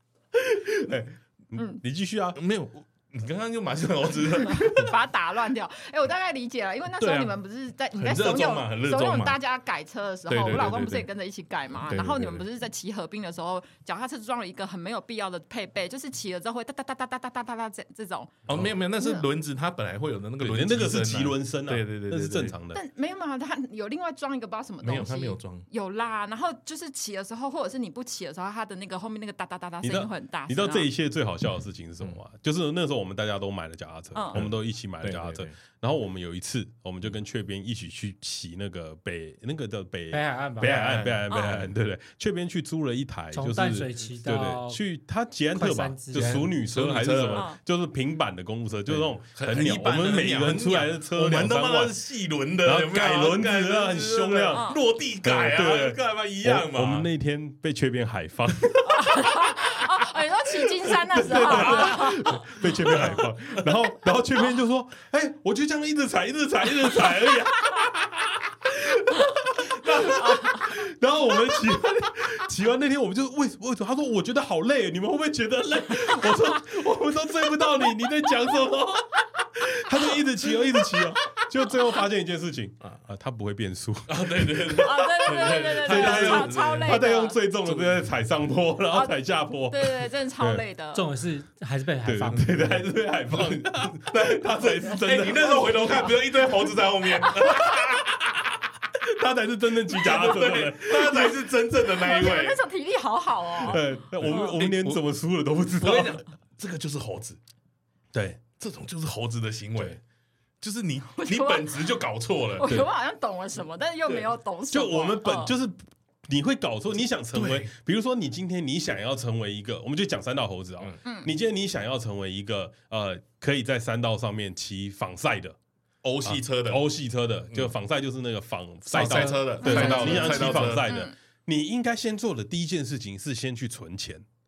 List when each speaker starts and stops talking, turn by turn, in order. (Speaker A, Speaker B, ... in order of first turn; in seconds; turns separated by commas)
Speaker A: 0.3-2.4, Speaker B: 1.6-1.8, Speaker C: 2.4-5.0, Speaker B: 4.5-18.4, Speaker C: 7.0-7.4, Speaker C: 8.0-9.4, Speaker C: 10.3-11.1, Speaker C: 11.8-12.4, Speaker C: 18.5-22.6, Speaker B: 19.0-19.3, Speaker A: 20.4-22.8, Speaker B: 22.7-30.9, Speaker C: 24.8-25.6, Speaker A: 29.8-52.0, Speaker B: 34.1-34.4, Speaker C: 34.4-35.5, Speaker D: 40.1-40.7, Speaker C: 40.6-41.6, Speaker B: 41.3-41.6, Speaker D: 43.3-44.8, Speaker D: 45.5-46.5, Speaker C: 46.2-47.5, Speaker B: 47.3-47.6, Speaker C: 48.9-57.1, Speaker A: 52.6-59.5, Speaker B: 54.5-54.8, Speaker B: 58.9-62.5, Speaker A: 60.8-90.6, Speaker C: 61.4-63.6, Speaker C: 69.8-70.2, Speaker C: 84.1-87.0, Speaker B: 84.8-87.4, Speaker C: 87.6-88.1, Speaker B: 88.9-89.2, Speaker B: 89.7-91.0, Speaker D: 90.9-92.9, Speaker A: 92.0-96.2, Speaker C: 93.3-98.6, Speaker A: 97.3-98.0, Speaker A: 99.0-101.5, Speaker C: 99.9-102.6, Speaker B: 101.9-103.8, Speaker A: 103.6-106.2, Speaker C: 103.7-105.0, Speaker C: 105.8-107.4, Speaker A: 108.1-108.4, Speaker C: 108.6-110.0, Speaker C: 110.6-112.8, Speaker B: 111.1-112.0, Speaker B: 112.5-115.5, Speaker A: 112.6-112.9, Speaker A: 114.7-125.5, Speaker C: 117.3-117.7, Speaker B: 121.0-121.3, Speaker C: 126.0-126.8, Speaker A: 126.3-134.2, Speaker C: 128.9-130.9, Speaker D: 129.0-129.4, Speaker B: 129.6-131.1